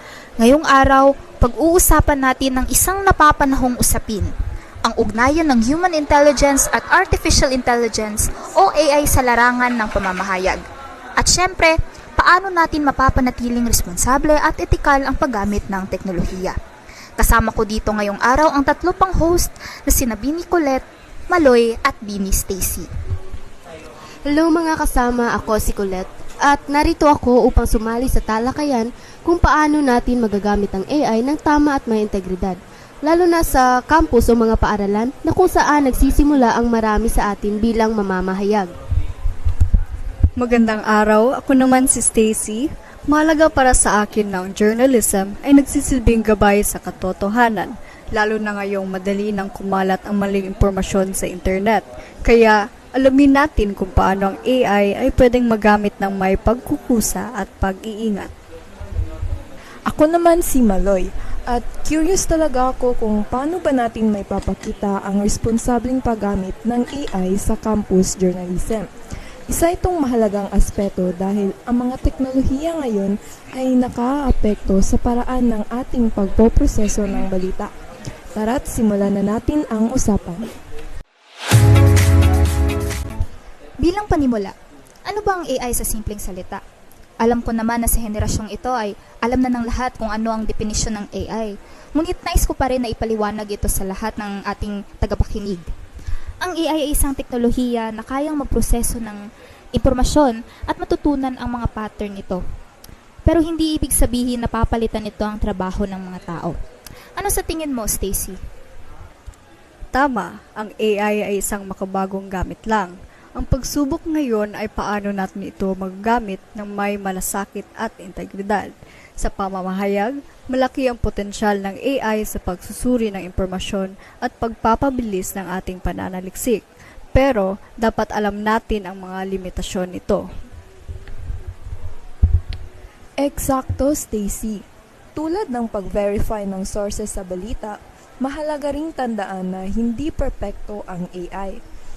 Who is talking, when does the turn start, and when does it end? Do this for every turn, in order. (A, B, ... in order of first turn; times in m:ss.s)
0:00.4-0:04.3 A
0:04.8-0:10.6 A
0:11.2-0:16.6 A
0:17.2-0:22.9 A
0:24.3-0:38.7 B
0:40.4-0:58.3 C
0:59.9-1:08.8 D
1:09.5-1:17.7 D
1:18.3-1:20.5 D
1:23.8-1:24.5 A
1:25.0-1:26.6 A
1:27.2-1:35.7 A
1:36.4-1:39.2 A
1:39.7-1:42.4 A
1:43.2-1:46.6 A
1:47.2-1:48.4 A
1:49.9-2:06.6 C
2:07.1-2:10.2 C
2:13.2-2:14.6 D
2:15.2-2:21.6 D